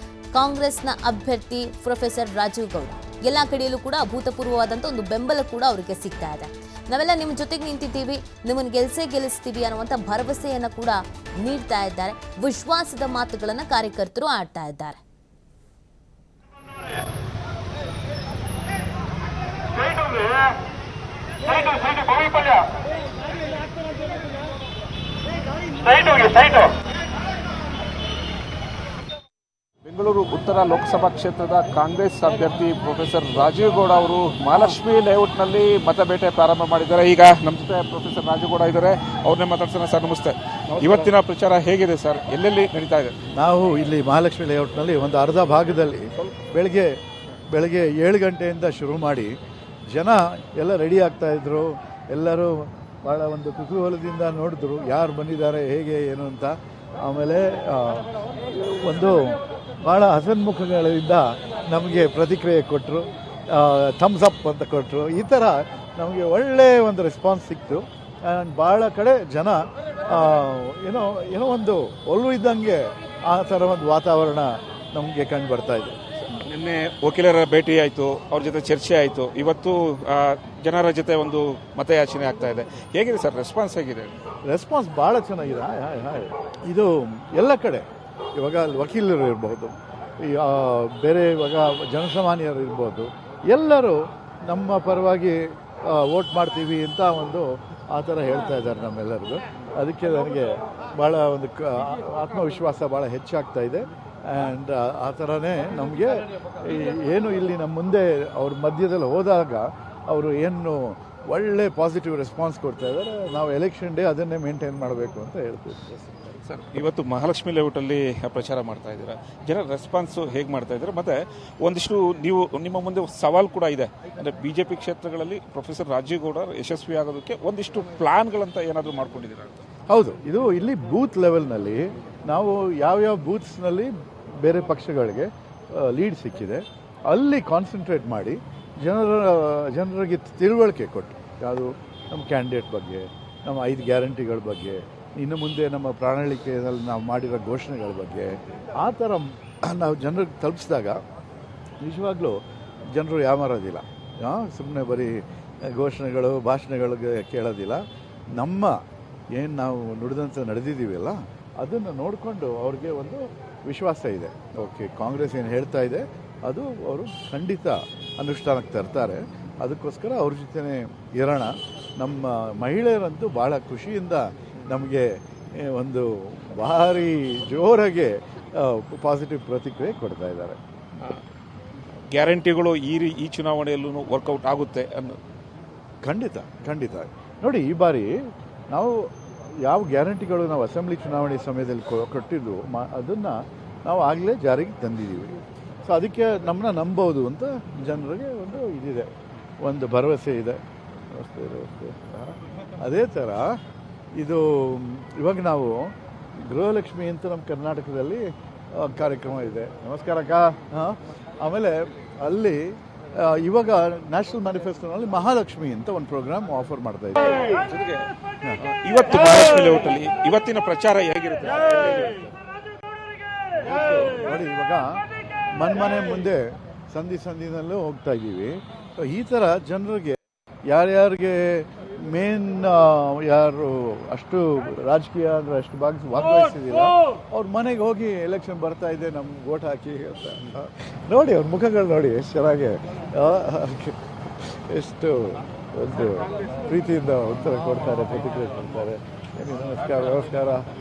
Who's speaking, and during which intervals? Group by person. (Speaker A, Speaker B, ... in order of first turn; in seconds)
Speaker A: 0.3-15.0
Speaker B: 21.5-22.4, 26.0-26.6, 29.8-43.2, 76.5-84.1, 116.4-129.6, 182.1-185.2, 217.4-218.1, 218.6-222.3
Speaker C: 43.4-46.9, 47.5-49.3, 49.9-76.0, 84.5-87.8, 88.3-116.2, 129.9-151.0, 151.8-152.3, 152.9-155.1, 155.7-157.8, 158.3-158.7, 159.3-180.6, 186.0-188.1, 188.7-189.1, 189.6-199.1, 199.6-203.5, 204.2-205.9, 206.5-217.3, 223.6-225.0, 225.6-250.6